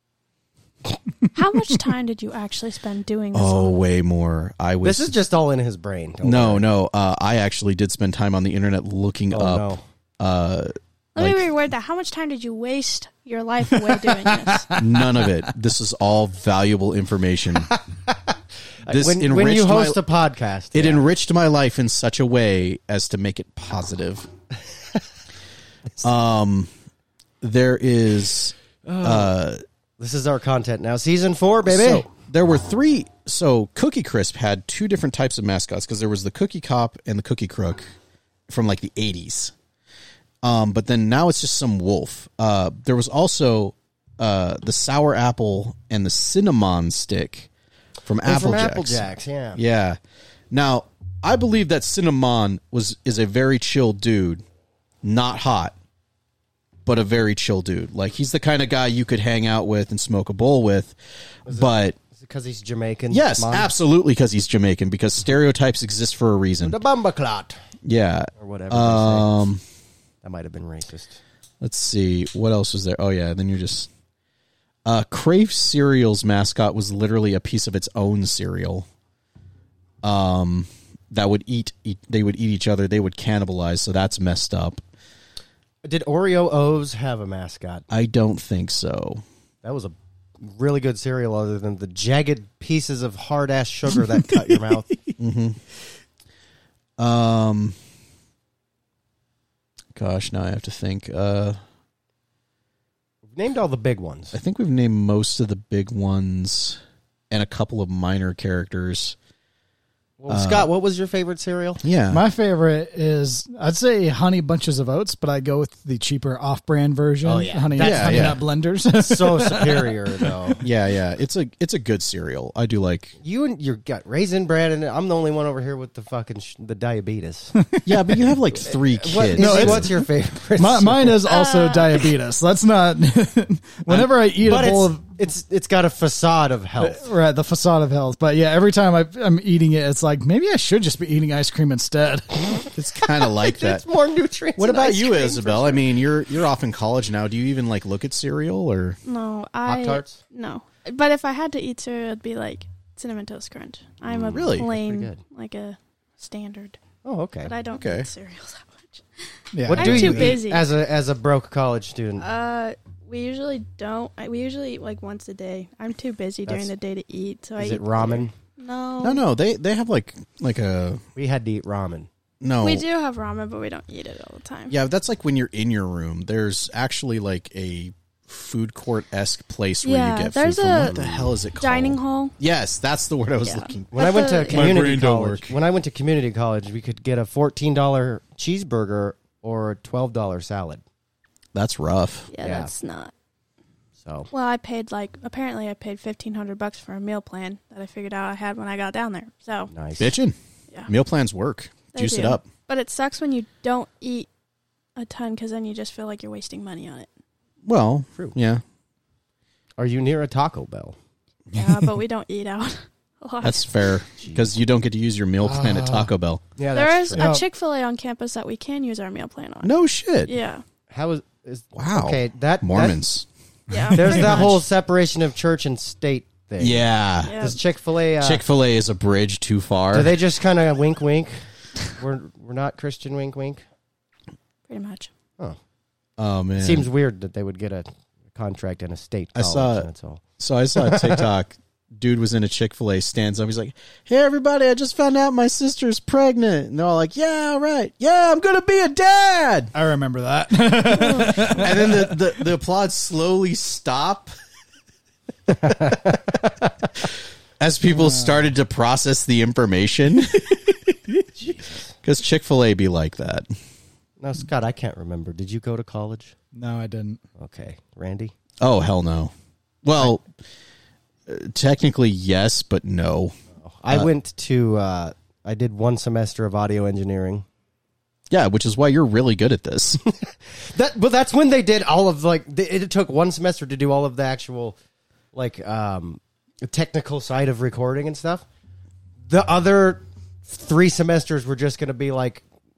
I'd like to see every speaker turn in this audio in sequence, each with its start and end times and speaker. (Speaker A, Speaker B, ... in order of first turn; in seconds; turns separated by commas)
Speaker A: 1.3-3.8, Speaker B: 3.3-5.1, Speaker C: 4.8-6.7, Speaker B: 6.2-11.5, Speaker C: 9.3-9.8, Speaker A: 11.2-14.8, Speaker D: 13.8-15.3, Speaker B: 14.8-17.8, Speaker C: 18.8-21.0, Speaker B: 18.9-20.0, Speaker B: 20.7-24.3, Speaker B: 26.0-26.7, Speaker B: 27.4-29.6, Speaker C: 28.9-29.3, Speaker C: 30.0-32.1, Speaker B: 31.7-37.8, Speaker B: 38.5-39.5, Speaker B: 40.4-47.5, Speaker B: 48.0-50.0, Speaker C: 48.2-49.6, Speaker B: 50.5-54.4, Speaker B: 55.0-55.8, Speaker B: 56.9-62.0, Speaker C: 61.5-63.7, Speaker B: 63.1-66.8, Speaker C: 66.6-67.6, Speaker B: 67.8-69.6, Speaker C: 68.4-69.3, Speaker C: 70.2-71.2, Speaker B: 71.6-73.9, Speaker B: 74.8-78.9, Speaker B: 80.0-84.8, Speaker C: 85.8-87.8, Speaker B: 87.9-89.2, Speaker C: 89.6-95.0, Speaker B: 95.2-95.6, Speaker B: 97.0-97.8, Speaker B: 99.9-101.6, Speaker C: 103.3-104.4, Speaker B: 104.3-109.2, Speaker C: 110.2-111.8, Speaker B: 110.3-110.7, Speaker B: 111.8-112.2, Speaker D: 112.1-120.3, Speaker C: 117.2-118.4, Speaker B: 117.8-118.4, Speaker C: 118.9-120.6, Speaker B: 120.6-123.2, Speaker C: 123.2-127.5, Speaker D: 127.7-128.2, Speaker B: 127.8-129.9, Speaker C: 128.7-131.2, Speaker D: 129.4-135.0, Speaker A: 131.3-132.1, Speaker C: 134.4-137.1, Speaker D: 136.8-142.6, Speaker B: 142.5-143.8, Speaker C: 142.6-145.8, Speaker B: 144.6-149.0, Speaker A: 149.0-156.8, Speaker C: 149.7-150.2, Speaker C: 154.2-155.2, Speaker B: 154.3-154.7, Speaker C: 157.0-157.5, Speaker A: 157.4-160.7, Speaker B: 157.7-158.1, Speaker D: 159.5-160.4, Speaker C: 159.7-162.2, Speaker A: 162.2-169.2, Speaker C: 167.6-168.3, Speaker B: 169.0-171.0, Speaker C: 171.2-172.1, Speaker B: 172.4-172.8, Speaker A: 172.6-174.8, Speaker B: 174.7-185.6, Speaker A: 179.8-180.9, Speaker C: 180.9-181.2, Speaker A: 181.6-182.3, Speaker A: 183.4-184.7, Speaker C: 183.9-190.8, Speaker B: 191.5-192.3, Speaker A: 192.3-193.1, Speaker C: 192.4-192.7, Speaker C: 194.0-194.3, Speaker A: 194.3-199.7, Speaker C: 199.7-200.1, Speaker B: 200.0-200.3, Speaker B: 200.9-202.4, Speaker A: 201.9-204.3, Speaker A: 204.9-207.1, Speaker B: 207.6-208.6, Speaker C: 209.8-210.9, Speaker B: 211.5-211.9, Speaker A: 211.5-213.7, Speaker B: 213.4-216.4, Speaker C: 214.2-214.5, Speaker D: 215.4-216.1, Speaker C: 216.6-217.4, Speaker A: 216.8-220.6, Speaker D: 217.1-217.4, Speaker B: 219.6-220.3, Speaker C: 220.9-223.0, Speaker B: 221.7-223.2, Speaker A: 223.7-224.5, Speaker D: 223.8-224.1, Speaker C: 223.9-228.4, Speaker B: 226.6-227.6, Speaker A: 227.2-227.6, Speaker B: 228.2-230.1, Speaker C: 229.9-233.6, Speaker A: 234.7-235.1, Speaker B: 236.2-236.9, Speaker C: 236.6-240.2, Speaker B: 239.3-239.9, Speaker B: 240.4-249.7, Speaker C: 240.8-241.3, Speaker D: 249.7-252.2, Speaker B: 251.0-254.3, Speaker C: 255.5-256.9, Speaker B: 257.6-260.9, Speaker D: 257.9-258.4, Speaker C: 261.4-261.9, Speaker B: 262.0-263.5, Speaker C: 264.2-266.4, Speaker D: 266.5-267.2, Speaker C: 267.4-268.3, Speaker B: 268.6-269.3, Speaker B: 269.8-270.3, Speaker B: 271.2-273.3, Speaker C: 273.6-277.4, Speaker B: 278.3-280.0, Speaker C: 280.0-284.8, Speaker C: 285.3-288.4, Speaker C: 289.3-292.4